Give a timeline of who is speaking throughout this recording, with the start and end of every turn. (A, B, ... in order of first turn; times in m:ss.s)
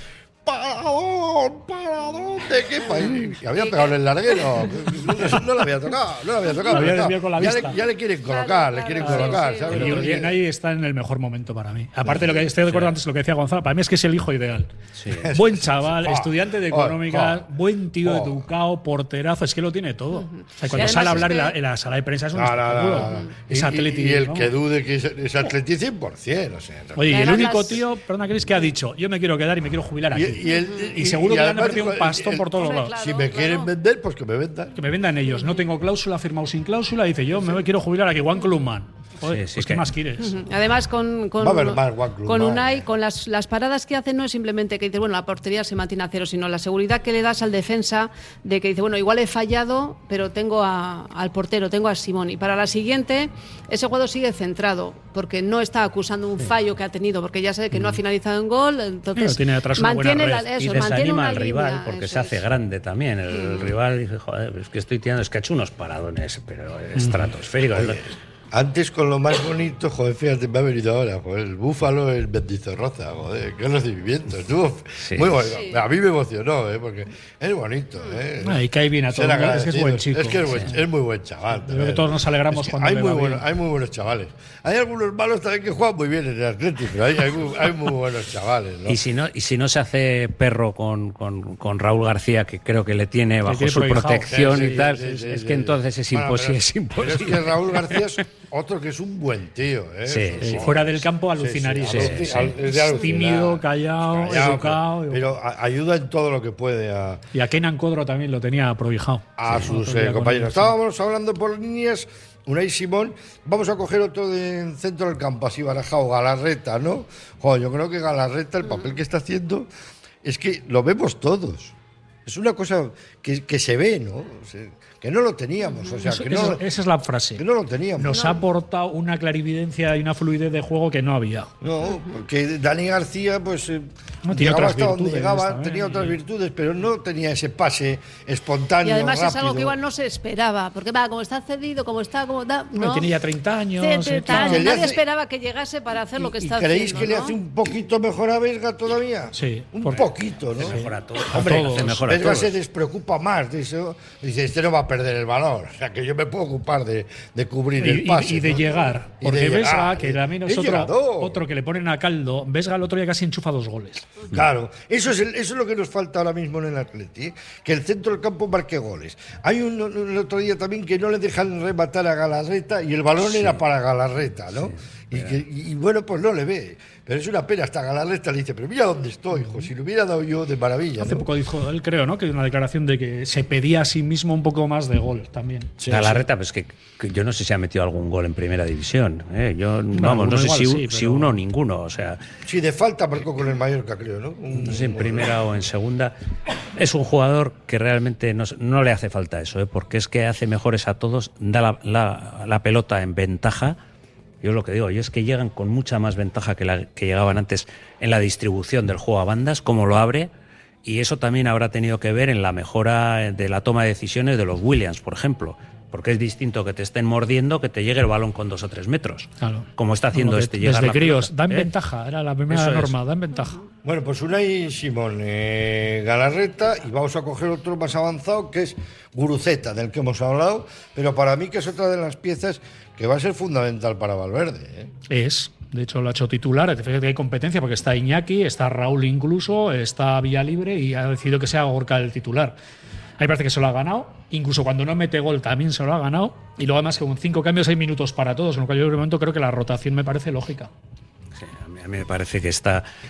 0:00.4-0:10.4 A
0:03.1-0:03.9 B
0:06.7-0:07.8 C
0:08.2-0:10.1 B
0:09.0-0:14.7 C
0:09.7-0:10.0 D
0:12.0-0:12.5 A
0:12.7-0:12.9 D
0:15.0-0:15.2 D
0:15.1-0:17.5 A
0:15.3-0:24.5 C
0:18.0-0:18.5 A
0:20.2-0:21.5 B
0:22.3-0:27.8 A
0:23.0-0:23.2 B
0:27.0-0:30.4 C
0:27.1-0:27.8 B
0:30.1-0:34.8 A
0:30.4-0:31.0 B
0:31.0-0:32.9 C
0:32.5-0:33.7 B
0:34.8-0:40.3 C
0:37.3-0:37.6 A
0:39.2-0:39.8 D
0:40.2-1:02.4 B
0:41.4-0:42.8 A
0:57.7-0:58.0 D
0:59.2-1:00.5 C
1:00.6-1:08.1 D
1:03.3-1:03.7 B
1:07.0-1:07.3 C
1:07.7-1:29.0 A
1:15.0-1:15.3 D
1:15.5-1:15.8 B
1:18.4-1:20.8 C
1:21.6-1:23.4 C
1:28.8-1:38.1 D
1:33.4-1:34.7 C
1:34.3-1:47.2 A
1:40.1-1:40.7 D
1:40.4-1:45.3 C
1:41.8-1:42.6 D
1:47.3-1:50.7 C
1:49.4-1:59.7 A
2:00.2-2:06.6 A
2:05.6-2:06.0 B
2:06.0-2:07.4 C
2:07.4-2:08.2 A
2:08.0-2:11.5 C
2:08.1-2:08.4 B
2:11.6-2:19.7 A
2:14.2-2:16.1 C
2:18.8-2:23.1 B
2:22.8-2:24.7 C
2:23.8-2:27.4 B
2:24.3-2:25.0 A
2:26.2-2:41.4 A
2:29.3-2:30.0 C
2:30.6-2:32.5 D
2:30.7-2:32.1 C
2:37.8-2:44.1 C
2:44.3-3:01.3 A
2:53.2-2:53.6 D
2:54.6-2:55.4 D
3:01.0-3:05.7 C
3:05.8-3:06.2 A
3:05.9-3:12.2 D
3:09.9-3:11.3 C
3:12.4-3:15.3 A
3:14.6-3:16.1 D
3:16.8-3:23.8 D
3:24.4-3:30.3 D
3:30.8-3:41.7 D
3:39.4-3:43.6 C
3:42.5-3:42.9 D
3:43.8-3:54.9 A
3:55.1-4:02.5 C
4:03.2-4:10.7 C
4:11.4-4:12.8 D